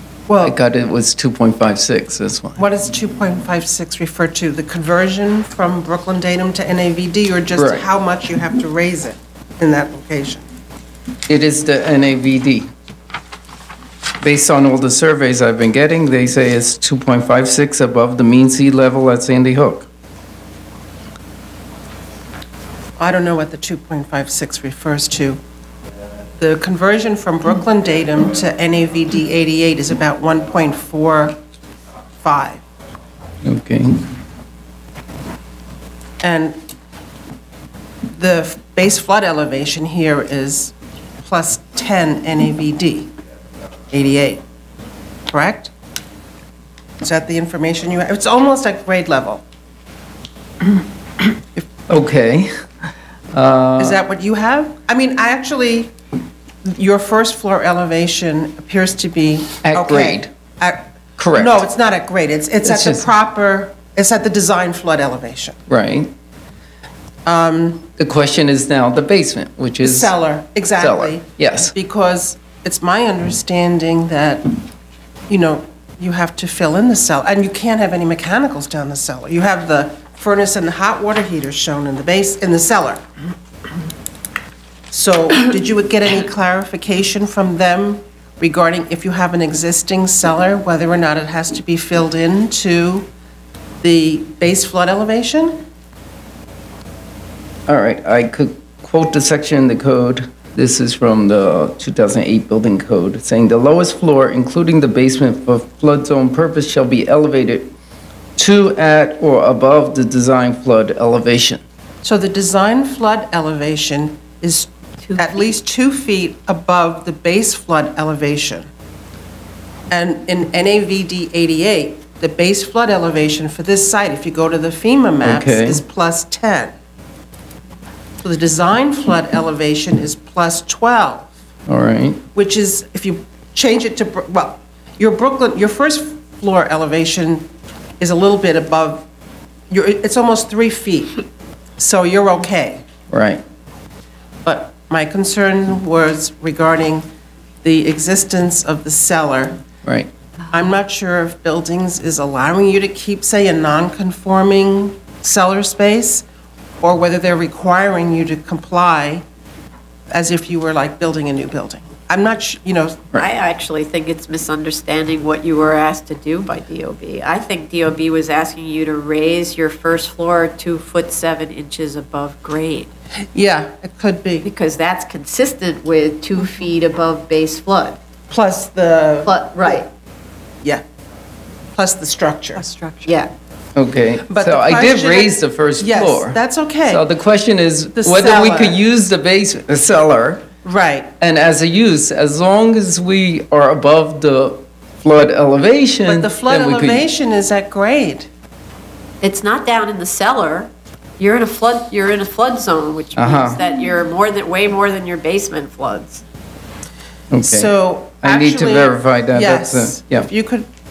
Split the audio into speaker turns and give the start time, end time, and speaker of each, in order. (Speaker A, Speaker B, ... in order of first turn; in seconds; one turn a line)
Speaker A: 0.3-0.6
Speaker B: 0.4-2.6
Speaker A: 2.6-10.5
Speaker B: 7.6-7.8
Speaker B: 11.3-12.7
Speaker B: 14.2-19.9
Speaker A: 23.0-25.4
Speaker A: 26.4-31.4
Speaker A: 32.2-32.6
Speaker B: 33.4-34.1
Speaker A: 36.2-36.6
Speaker A: 38.2-43.1
Speaker A: 43.9-44.4
Speaker A: 45.3-45.7
Speaker A: 47.0-49.4
Speaker B: 51.9-52.5
Speaker B: 53.3-54.0
Speaker A: 53.8-55.9
Speaker A: 56.6-65.6
Speaker B: 59.6-60.3
Speaker B: 61.2-61.6
Speaker B: 62.6-63.1
Speaker B: 65.7-66.1
Speaker A: 67.3-67.9
Speaker B: 68.0-70.1
Speaker A: 69.8-74.6
Speaker B: 70.8-71.7
Speaker A: 75.3-83.0
Speaker A: 84.9-93.1
Speaker A: 93.8-95.6
Speaker B: 97.7-107.7
Speaker B: 108.4-111.6
Speaker A: 112.0-118.7
Speaker C: 115.0-115.5
Speaker A: 119.9-126.7
Speaker B: 125.2-125.8
Speaker A: 128.2-131.3
Speaker B: 131.7-132.2
Speaker A: 132.3-137.5
Speaker A: 138.0-139.1
Speaker A: 139.7-141.2
Speaker A: 141.8-142.8
Speaker B: 143.1-143.4
Speaker A: 144.4-147.1
Speaker A: 147.6-149.6
Speaker B: 149.8-150.1
Speaker A: 150.5-156.2
Speaker A: 156.8-159.2
Speaker A: 160.1-163.2
Speaker C: 163.2-172.9
Speaker A: 173.3-174.5
Speaker C: 174.4-178.0
Speaker A: 178.3-179.8
Speaker C: 179.3-179.9
Speaker A: 181.8-182.7
Speaker C: 182.6-183.3
Speaker B: 183.8-190.5
Speaker A: 184.2-187.0
Speaker A: 187.9-188.8
Speaker A: 190.6-191.1
Speaker B: 191.2-197.1
Speaker A: 196.1-198.3
Speaker C: 199.2-206.2
Speaker B: 203.2-203.6
Speaker B: 207.3-210.3
Speaker A: 207.4-210.7